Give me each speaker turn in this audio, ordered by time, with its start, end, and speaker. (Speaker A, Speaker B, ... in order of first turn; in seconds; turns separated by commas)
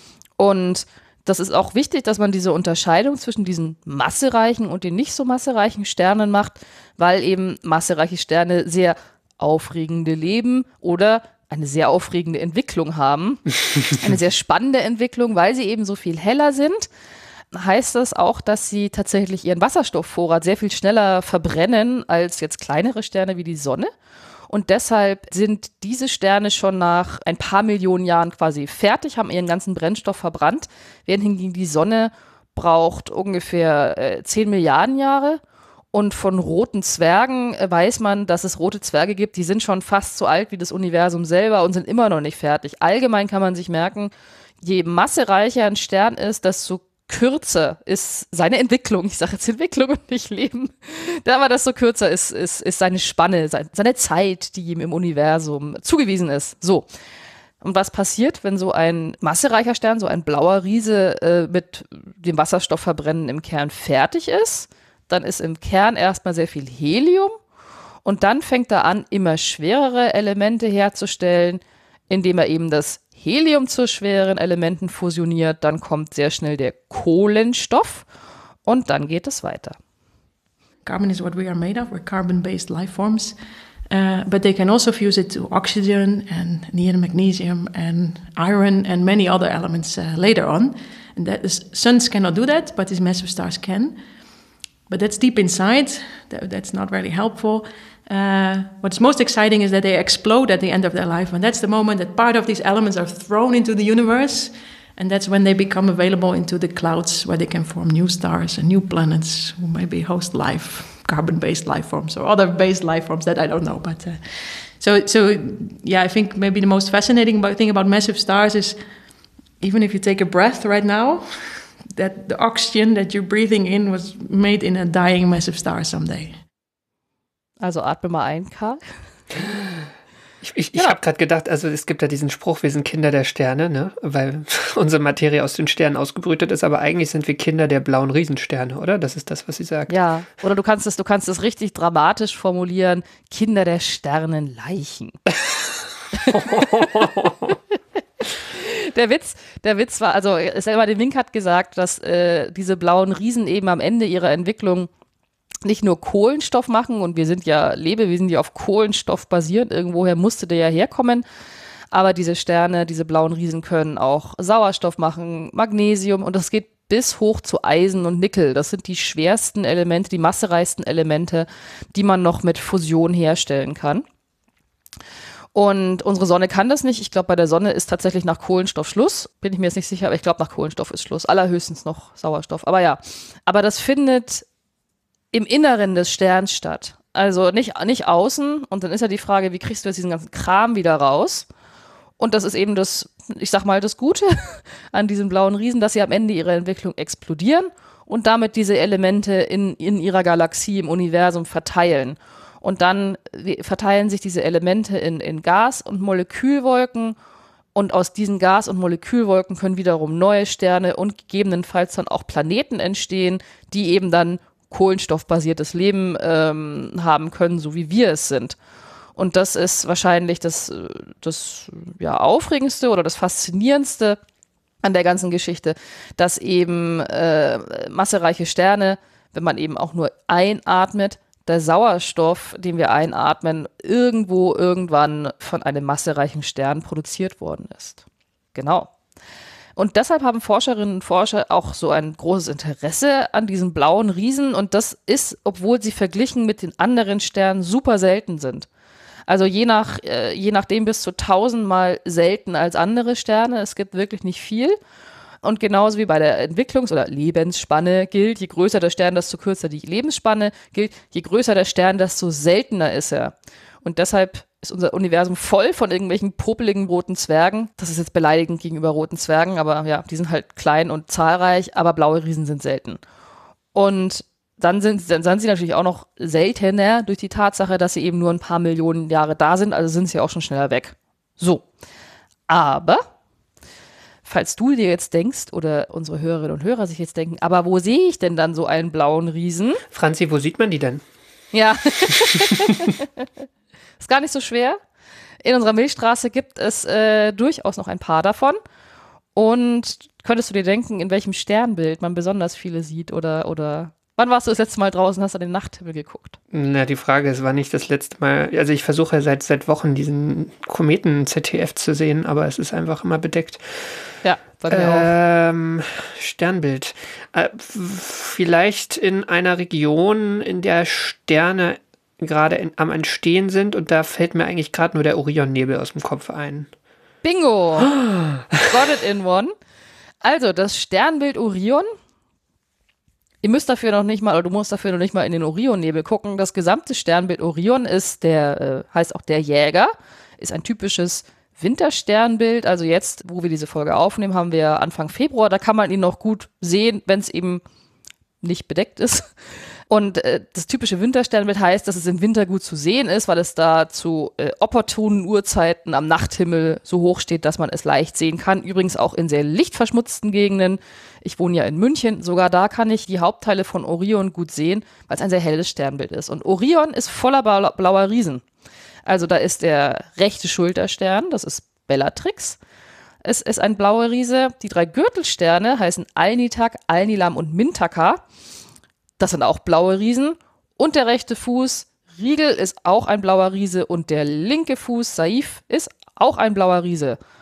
Speaker A: 0.4-16.9, Speaker A: 17.5-23.9, Speaker A: 24.5-35.4, Speaker A: 35.9-56.9, Speaker A: 57.6-67.4, Speaker A: 68.0-78.0, Speaker A: 78.7-79.8, Speaker B: 80.8-83.3, Speaker B: 83.9-94.0, Speaker B: 94.9-118.8, Speaker B: 119.6-126.3, Speaker A: 127.6-128.8, Speaker C: 130.4-139.9, Speaker A: 139.9-145.2, Speaker A: 146.2-146.9, Speaker C: 146.3-147.5, Speaker A: 148.4-154.9, Speaker A: 155.6-161.2, Speaker A: 161.9-174.0, Speaker A: 175.5-184.4, Speaker A: 185.3-191.5, Speaker A: 192.2-207.2, Speaker A: 207.7-218.6, Speaker A: 219.2-224.2, Speaker A: 224.8-238.0, Speaker A: 238.5-238.9, Speaker A: 239.8-248.7, Speaker A: 249.3-254.8, Speaker A: 255.4-263.3, Speaker A: 263.8-273.0, Speaker A: 273.7-281.6, Speaker A: 282.5-283.0, Speaker A: 284.2-289.8, Speaker C: 289.9-291.0, Speaker A: 291.5-293.2, Speaker C: 292.1-292.6, Speaker A: 294.0-294.8, Speaker A: 295.4-298.6, Speaker A: 299.3-306.4, Speaker C: 306.5-314.1, Speaker A: 314.2-315.1, Speaker C: 314.7-326.7, Speaker A: 327.2-327.9, Speaker C: 327.8-328.6, Speaker A: 328.7-329.5, Speaker A: 330.2-331.9, Speaker A: 333.4-347.6, Speaker A: 348.4-349.3, Speaker A: 349.9-368.4, Speaker A: 369.1-372.6, Speaker A: 373.2-378.2, Speaker A: 379.2-387.2